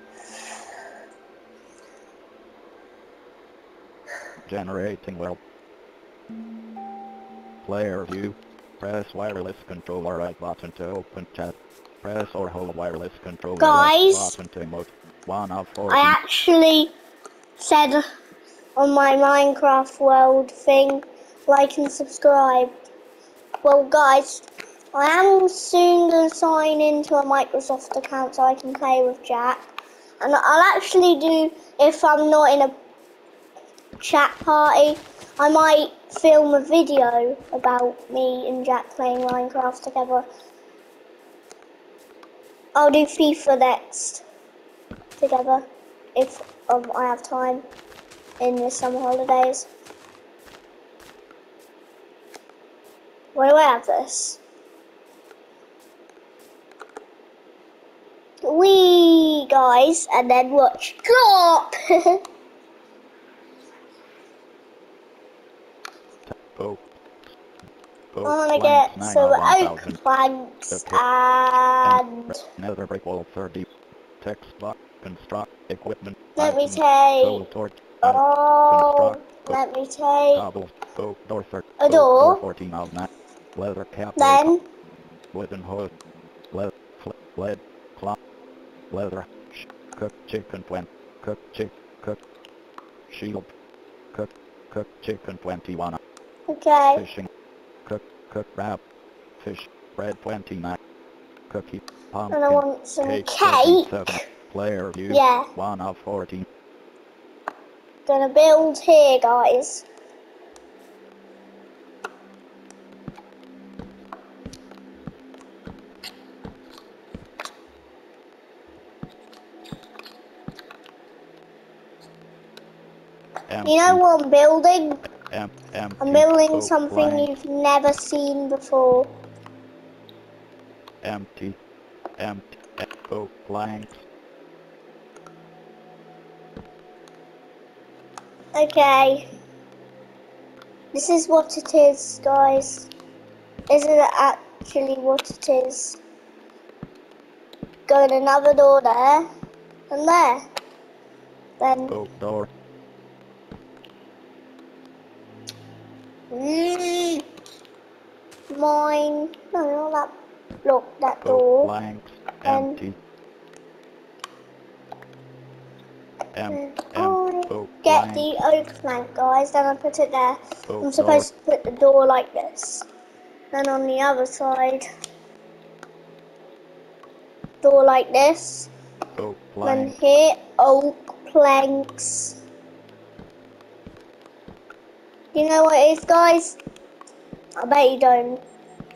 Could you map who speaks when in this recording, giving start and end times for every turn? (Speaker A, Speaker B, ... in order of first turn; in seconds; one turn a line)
Speaker A: 4.5-5.4
Speaker A: 7.6-16.2
Speaker B: 13.6-14.4
Speaker B: 15.9-16.9
Speaker B: 17.6-18.0
Speaker B: 18.8-22.8
Speaker B: 23.6-29.6
Speaker B: 30.2-32.7
Speaker B: 34.0-40.3
Speaker B: 42.8-44.2
Speaker B: 45.2-47.6
Speaker B: 48.4-49.7
Speaker B: 53.4-54.4
Speaker B: 58.4-62.2
Speaker A: 66.3-66.9
Speaker A: 68.1-70.0
Speaker B: 68.2-72.3
Speaker A: 70.7-71.0
Speaker A: 71.8-73.7
Speaker A: 74.2-79.6
Speaker B: 76.4-77.4
Speaker B: 78.0-80.5
Speaker A: 80.3-84.5
Speaker B: 81.8-82.4
Speaker B: 84.2-84.6
Speaker A: 85.3-85.9
Speaker A: 86.5-88.2
Speaker A: 88.9-92.2
Speaker A: 93.1-93.5
Speaker A: 94.1-96.0
Speaker B: 96.5-97.0
Speaker A: 97.0-97.3
Speaker A: 97.8-98.8
Speaker A: 99.4-100.8
Speaker A: 101.5-106.5
Speaker B: 102.3-104.2
Speaker B: 105.1-105.5
Speaker B: 108.1-109.9
Speaker A: 123.5-124.0
Speaker B: 123.7-125.0
Speaker A: 125.3-127.3
Speaker B: 126.0-129.1
Speaker A: 131.0-131.6
Speaker A: 132.2-134.0
Speaker B: 138.6-139.3
Speaker B: 140.9-142.9
Speaker B: 143.7-146.0
Speaker B: 147.9-149.3
Speaker B: 149.9-150.4
Speaker B: 151.6-152.0
Speaker A: 151.9-152.5
Speaker B: 156.3-157.2
Speaker B: 158.5-160.1
Speaker B: 160.6-161.7
Speaker A: 161.2-163.0
Speaker B: 162.5-162.8
Speaker A: 166.3-168.3
Speaker B: 166.5-172.9
Speaker A: 170.7-171.3
Speaker B: 173.5-174.8
Speaker B: 177.6-178.7
Speaker A: 179.2-179.9
Speaker B: 179.6-182.4
Speaker B: 185.3-186.6
Speaker B: 187.6-188.4